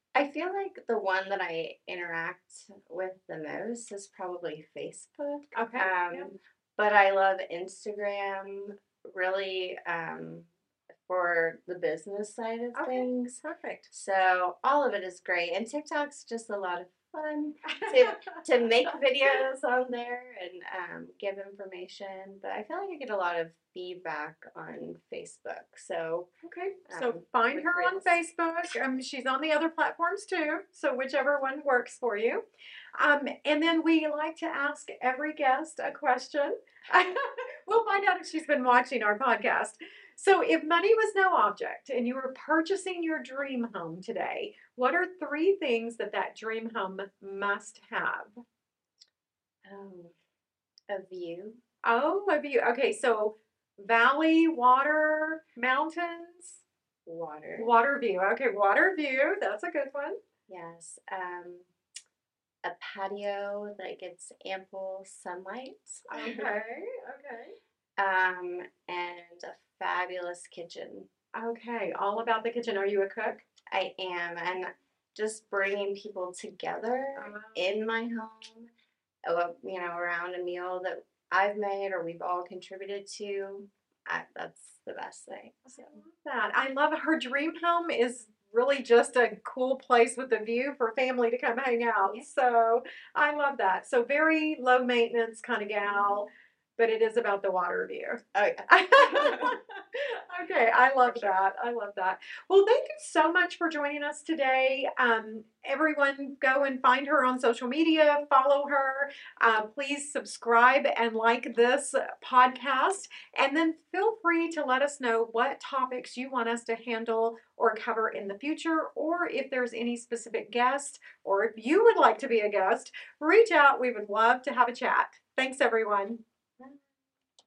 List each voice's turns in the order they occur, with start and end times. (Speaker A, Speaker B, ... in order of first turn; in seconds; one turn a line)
Speaker A: 0.1-10.5
Speaker B: 5.5-6.3
Speaker A: 11.1-13.4
Speaker B: 12.7-13.9
Speaker A: 13.9-26.3
Speaker B: 17.7-19.0
Speaker B: 26.4-32.4
Speaker A: 26.9-28.2
Speaker B: 33.0-48.4
Speaker A: 49.6-50.1
Speaker A: 50.9-51.6
Speaker B: 51.8-56.6
Speaker A: 57.0-57.7
Speaker B: 57.6-60.2
Speaker A: 60.5-61.7
Speaker A: 62.6-66.5
Speaker B: 66.1-67.6
Speaker A: 68.0-71.1
Speaker B: 71.3-73.5
Speaker A: 73.7-78.7
Speaker B: 77.2-77.7
Speaker A: 79.3-86.0
Speaker B: 85.7-126.2
Speaker A: 98.3-99.5